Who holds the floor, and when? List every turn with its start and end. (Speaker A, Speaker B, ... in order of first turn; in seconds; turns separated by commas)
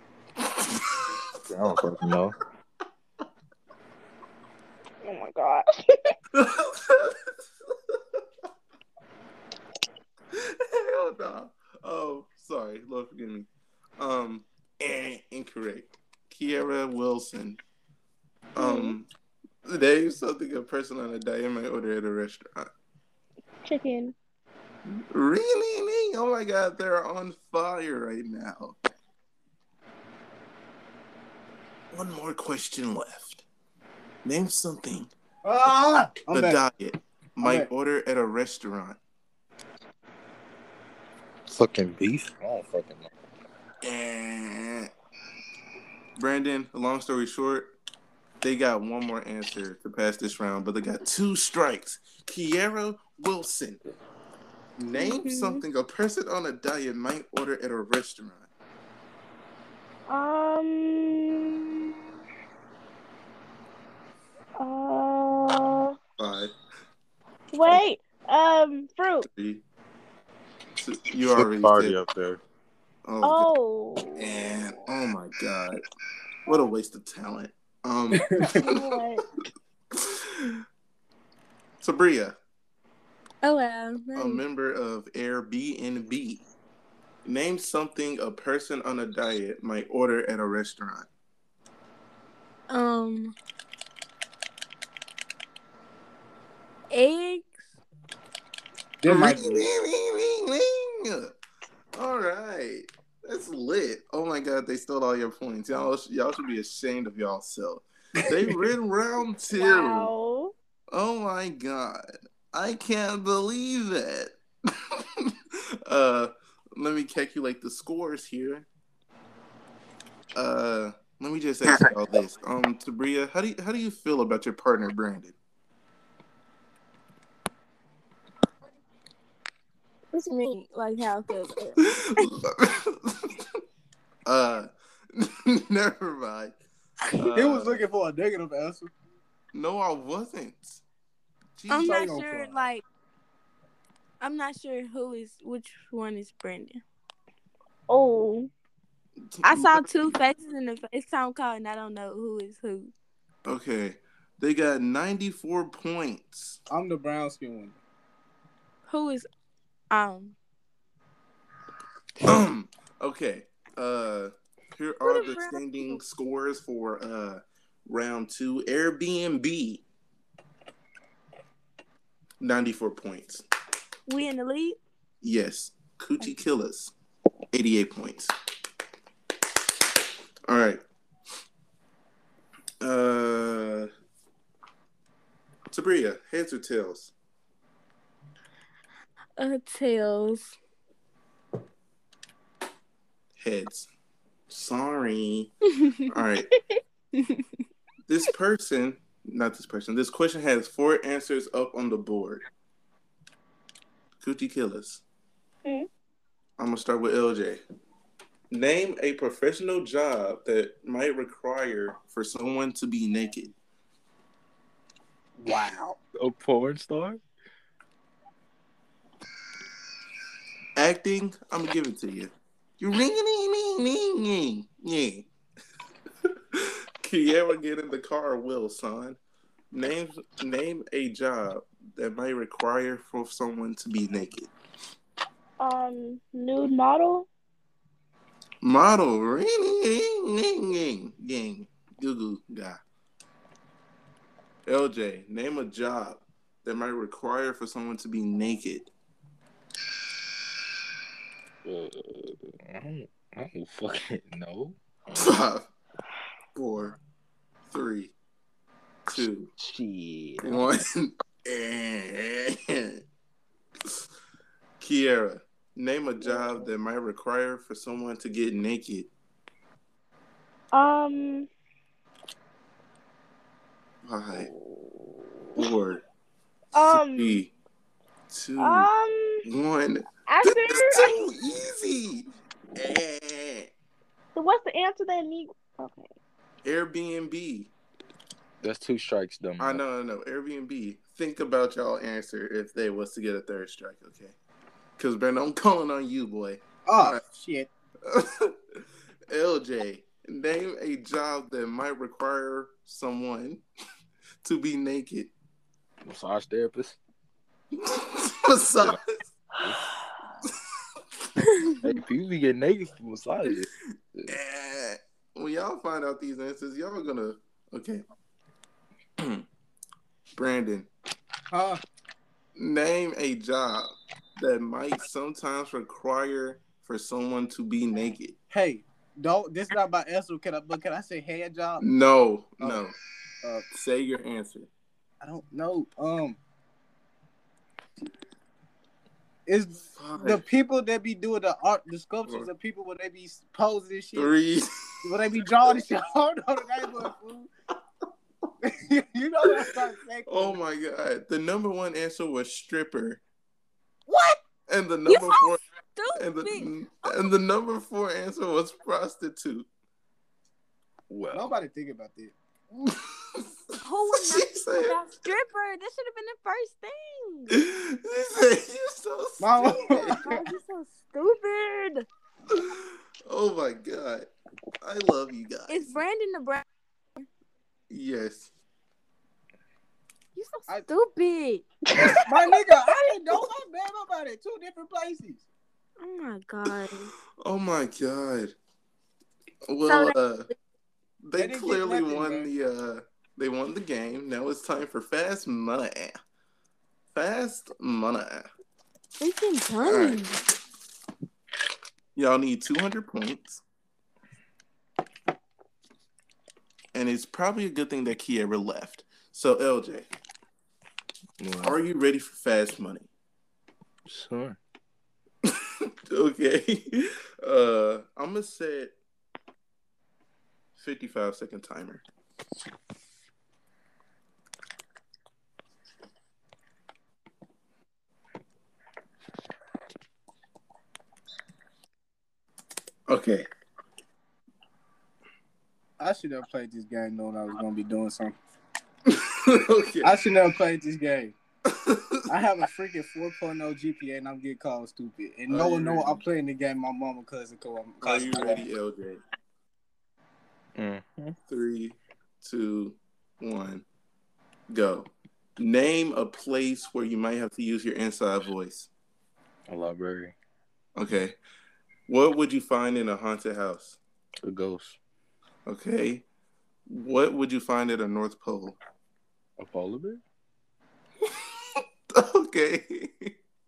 Speaker A: 0.6-1.0, Speaker B: 1.4-2.4, Speaker C: 5.0-6.1, Speaker A: 6.3-7.2, Speaker A: 7.9-8.2, Speaker A: 10.3-13.5, Speaker A: 14.0-17.6, Speaker A: 18.6-19.1, Speaker C: 18.6-19.0, Speaker A: 19.6-22.7, Speaker C: 23.6-24.2, Speaker A: 24.9-28.8, Speaker A: 31.9-33.5, Speaker A: 34.2-35.1, Speaker D: 35.4-36.6, Speaker A: 36.3-39.0, Speaker D: 37.4-37.7, Speaker B: 41.5-43.1, Speaker A: 43.8-44.9, Speaker A: 46.2-47.7, Speaker A: 48.4-53.8, Speaker A: 54.8-58.5, Speaker C: 54.9-55.6, Speaker C: 60.1-61.5, Speaker C: 64.6-66.0, Speaker A: 66.2-66.5, Speaker C: 67.5-69.3, Speaker A: 69.2-69.6, Speaker A: 70.8-72.0, Speaker B: 71.2-72.4, Speaker A: 73.1-73.5, Speaker C: 73.2-74.8, Speaker A: 74.2-75.8, Speaker A: 76.5-79.0, Speaker D: 78.1-78.7, Speaker C: 78.3-79.2, Speaker A: 79.9-80.6, Speaker A: 81.8-82.3, Speaker E: 83.4-84.4, Speaker A: 84.2-86.5, Speaker A: 87.2-91.1, Speaker E: 92.7-93.3, Speaker E: 96.9-97.7, Speaker D: 99.0-99.7, Speaker A: 99.0-101.3, Speaker A: 102.0-110.1, Speaker C: 109.5-110.5, Speaker A: 110.9-115.3, Speaker A: 115.8-118.7, Speaker A: 120.3-125.3, Speaker E: 130.2-132.2, Speaker A: 131.9-133.4, Speaker A: 134.3-136.6, Speaker A: 137.1-137.8, Speaker D: 137.3-138.9, Speaker A: 139.5-140.8, Speaker A: 141.6-142.2, Speaker E: 141.7-142.8, Speaker D: 141.7-142.7, Speaker E: 144.2-146.8, Speaker C: 147.9-148.5, Speaker A: 149.3-150.1, Speaker E: 149.4-152.9, Speaker A: 153.4-156.6, Speaker D: 156.7-157.8, Speaker E: 158.9-159.3, Speaker E: 159.9-160.3, Speaker A: 162.2-169.8, Speaker E: 165.0-166.0, Speaker A: 172.4-173.4, Speaker E: 174.1-174.8, Speaker A: 175.2-176.9, Speaker A: 177.5-178.3, Speaker A: 180.5-180.8, Speaker A: 182.8-183.9, Speaker A: 185.7-187.1, Speaker E: 189.4-190.5, Speaker A: 193.4-193.9, Speaker A: 194.5-195.6, Speaker A: 196.1-196.5, Speaker C: 196.5-196.8, Speaker A: 198.1-202.4, Speaker A: 204.2-205.0, Speaker A: 206.6-207.6, Speaker A: 208.5-213.5, Speaker B: 215.4-217.2, Speaker D: 215.5-215.9, Speaker A: 220.8-225.3, Speaker A: 226.3-229.2, Speaker A: 229.7-234.5, Speaker C: 235.6-237.3, Speaker A: 238.6-242.8, Speaker A: 244.7-248.9, Speaker B: 251.6-255.3, Speaker A: 255.2-255.7, Speaker A: 256.6-257.0, Speaker A: 257.7-258.1, Speaker A: 259.1-259.5, Speaker B: 259.1-260.7, Speaker A: 260.4-263.0, Speaker A: 264.8-269.1, Speaker C: 270.7-271.5, Speaker A: 274.0-274.5, Speaker C: 274.4-275.6, Speaker A: 275.6-276.0, Speaker C: 276.7-277.4, Speaker A: 276.9-277.5, Speaker A: 278.3-278.9, Speaker C: 278.6-279.5, Speaker A: 279.5-283.7, Speaker C: 280.3-281.2, Speaker C: 284.4-286.1, Speaker A: 286.6-287.7, Speaker B: 288.6-289.8, Speaker A: 289.6-294.3, Speaker A: 295.0-297.2, Speaker D: 296.9-297.7, Speaker A: 298.1-298.6, Speaker A: 299.3-303.6, Speaker A: 304.4-305.3, Speaker B: 306.0-307.0, Speaker A: 307.8-309.1, Speaker B: 311.8-314.4, Speaker A: 314.3-318.0, Speaker A: 319.2-319.5, Speaker A: 320.4-320.9, Speaker D: 321.5-321.8, Speaker A: 322.6-328.4, Speaker D: 328.5-331.9, Speaker A: 331.8-332.9, Speaker A: 333.7-334.7, Speaker D: 335.2-336.4, Speaker D: 339.5-344.3, Speaker A: 340.0-340.4, Speaker A: 344.1-345.1, Speaker D: 345.0-347.5, Speaker D: 348.6-350.6, Speaker A: 350.3-353.2, Speaker E: 354.1-354.3, Speaker A: 354.7-355.6, Speaker E: 355.1-357.2, Speaker A: 356.1-359.7, Speaker B: 361.1-361.5, Speaker D: 361.3-362.3, Speaker A: 362.8-363.5, Speaker E: 363.8-367.6, Speaker A: 364.1-365.0, Speaker A: 367.5-370.2, Speaker D: 369.4-370.4, Speaker E: 369.8-372.1, Speaker A: 372.5-374.3, Speaker A: 374.8-376.0, Speaker E: 375.7-376.6, Speaker A: 377.9-378.5, Speaker E: 380.4-381.7, Speaker C: 381.9-382.2, Speaker D: 382.1-385.4, Speaker E: 386.0-387.1, Speaker A: 387.4-388.5, Speaker A: 389.7-390.5, Speaker E: 389.9-390.2, Speaker A: 391.2-396.1, Speaker D: 391.4-392.5, Speaker A: 397.1-398.5, Speaker E: 399.2-400.4, Speaker A: 399.9-400.3, Speaker A: 402.1-403.6, Speaker A: 406.9-410.1, Speaker B: 411.4-411.8, Speaker A: 411.6-413.1, Speaker B: 414.1-414.6, Speaker A: 416.1-419.0, Speaker A: 420.8-422.0, Speaker A: 433.1-433.5, Speaker D: 436.0-438.4, Speaker A: 439.1-440.1, Speaker D: 440.0-441.4, Speaker A: 441.7-442.3, Speaker D: 442.3-448.6, Speaker A: 445.5-446.2, Speaker A: 448.0-449.2, Speaker B: 450.8-451.4, Speaker A: 451.5-453.9, Speaker A: 454.7-458.9, Speaker B: 459.7-460.4, Speaker A: 461.0-461.4, Speaker A: 462.1-464.0, Speaker B: 464.4-465.0, Speaker A: 465.7-466.3, Speaker A: 466.9-468.8, Speaker B: 469.6-470.2, Speaker A: 471.8-473.3